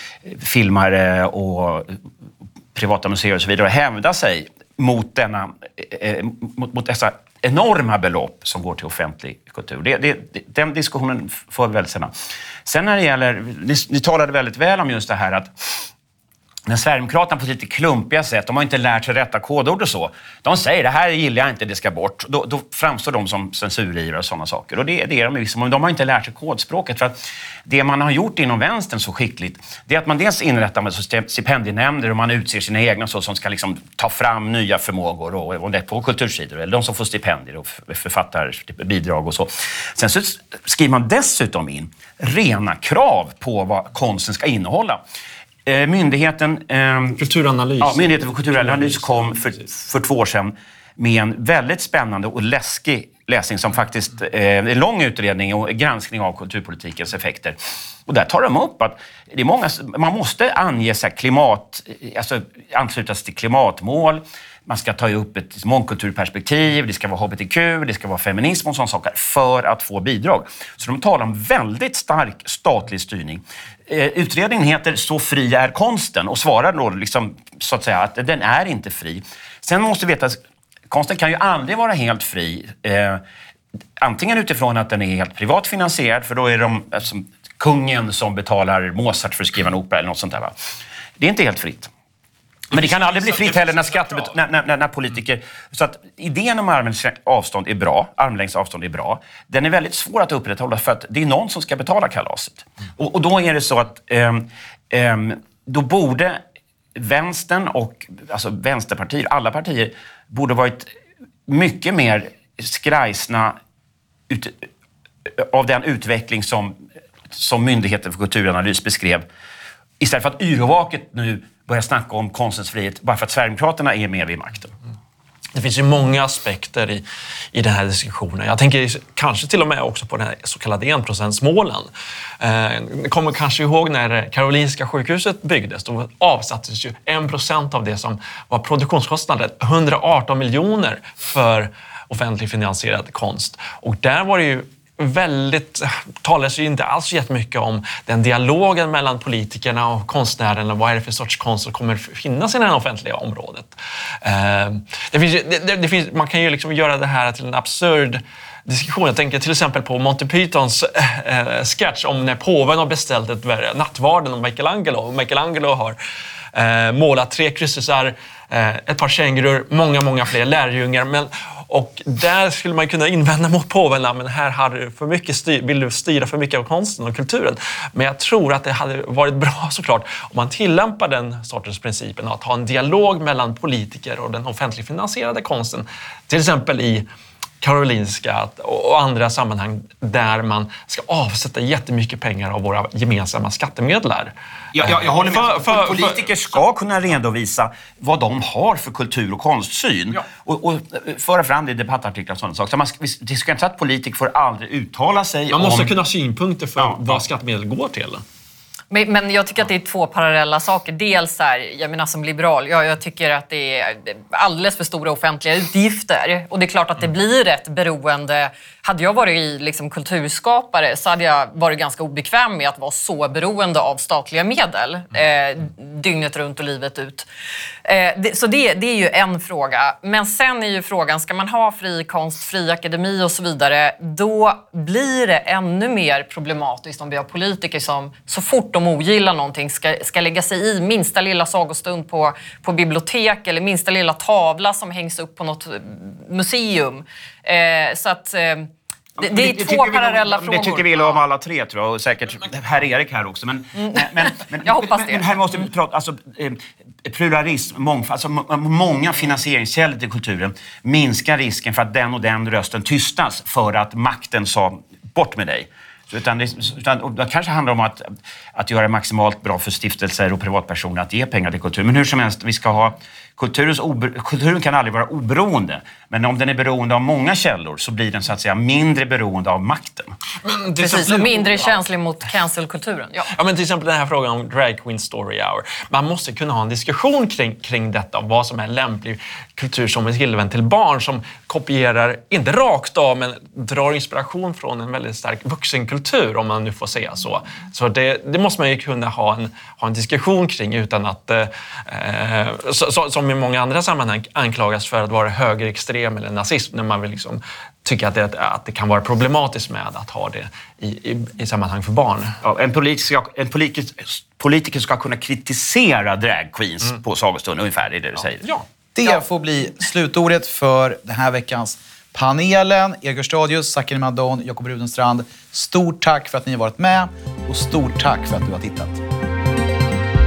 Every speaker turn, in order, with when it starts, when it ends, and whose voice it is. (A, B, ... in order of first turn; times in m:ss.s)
0:00.2-0:01.9 A
0:02.7-0:12.1 A
0:12.6-0:15.7 A
0:16.7-0:45.0 A
0:45.7-0:47.2 A
0:47.2-0:49.0 B
0:47.8-1:20.4 A
1:20.9-1:23.2 A
1:24.0-1:30.6 A
1:31.2-1:31.9 A
1:32.7-1:46.4 A
1:47.0-1:50.9 A
1:51.5-1:53.6 A
1:54.3-1:54.7 A
1:55.2-1:56.8 A
1:57.3-1:59.3 A
2:00.0-2:04.7 A
2:05.5-2:46.0 B
2:46.5-3:07.1 B
3:07.6-3:16.2 B
3:14.7-3:25.9 A
3:25.5-3:28.2 B
3:26.8-3:27.2 A
3:28.9-3:47.3 C
3:47.8-4:11.2 C
4:09.2-4:40.2 A
4:13.8-4:15.2 C
4:40.4-4:41.7 B
4:40.8-4:43.3 C
4:43.3-5:12.4 B
5:12.4-5:18.5 A
5:19.0-5:29.0 D